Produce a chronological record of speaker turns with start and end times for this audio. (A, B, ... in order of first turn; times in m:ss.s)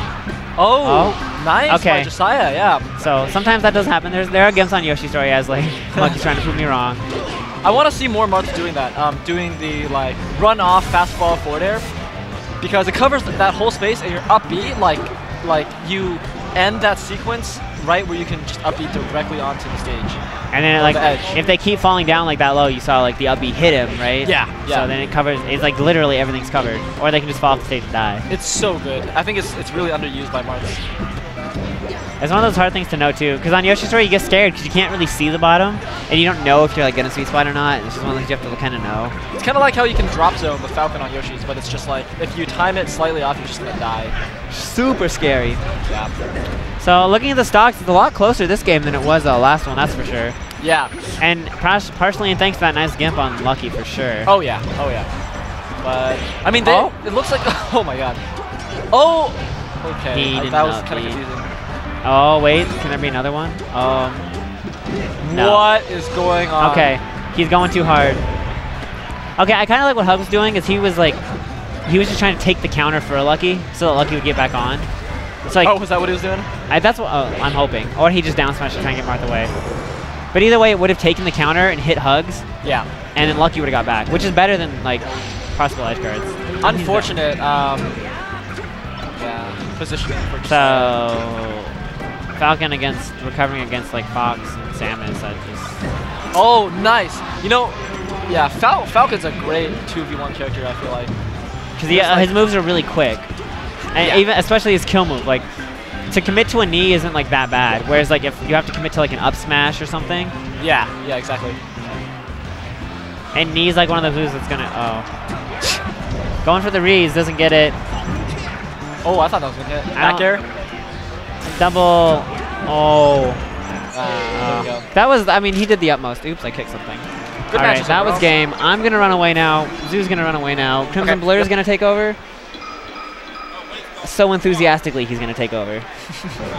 0:00.6-0:02.9 A
0:00.8-0:02.1 B
0:03.0-0:07.0 B
0:05.9-0:06.2 A
0:07.6-0:11.9 A
0:12.6-0:20.2 A
0:20.5-0:28.3 B
0:20.8-0:21.4 A
0:24.2-0:24.9 A
0:28.3-0:30.8 A
0:32.2-0:39.1 B
0:39.4-0:44.1 A
0:44.5-0:45.6 B
0:45.8-0:46.1 A
0:46.8-0:50.4 B
0:50.6-0:50.9 A
0:51.2-0:54.3 B
0:54.2-0:55.1 A
0:55.8-0:58.2 A
0:56.6-0:56.9 B
0:58.9-1:01.5 A
1:00.1-1:01.2 B
1:02.0-1:04.3 B
1:05.2-1:05.7 B
1:05.2-1:06.9 A
1:06.6-1:08.2 B
1:09.4-1:11.2 B
1:11.8-1:14.9 B
1:15.4-1:15.7 B
1:15.6-1:16.5 A
1:16.7-1:19.5 B
1:20.3-1:22.4 B
1:22.6-1:22.9 A
1:23.1-1:27.1 B
1:26.6-1:28.0 A
1:29.2-1:31.0 A
1:30.4-1:31.7 B
1:32.4-1:35.8 B
1:36.3-1:41.1 A
1:41.8-1:43.3 B
1:41.9-1:42.4 A
1:43.9-1:45.4 B
1:46.1-1:50.3 B
1:50.6-1:51.6 A
1:53.3-1:55.1 B
1:56.4-1:57.8 B
1:59.0-2:00.4 A
2:00.0-2:00.4 B
2:01.4-2:03.4 B
2:03.9-2:04.9 A
2:04.3-2:12.2 B
2:07.5-2:08.3 A
2:11.0-2:11.5 A
2:14.0-2:16.2 B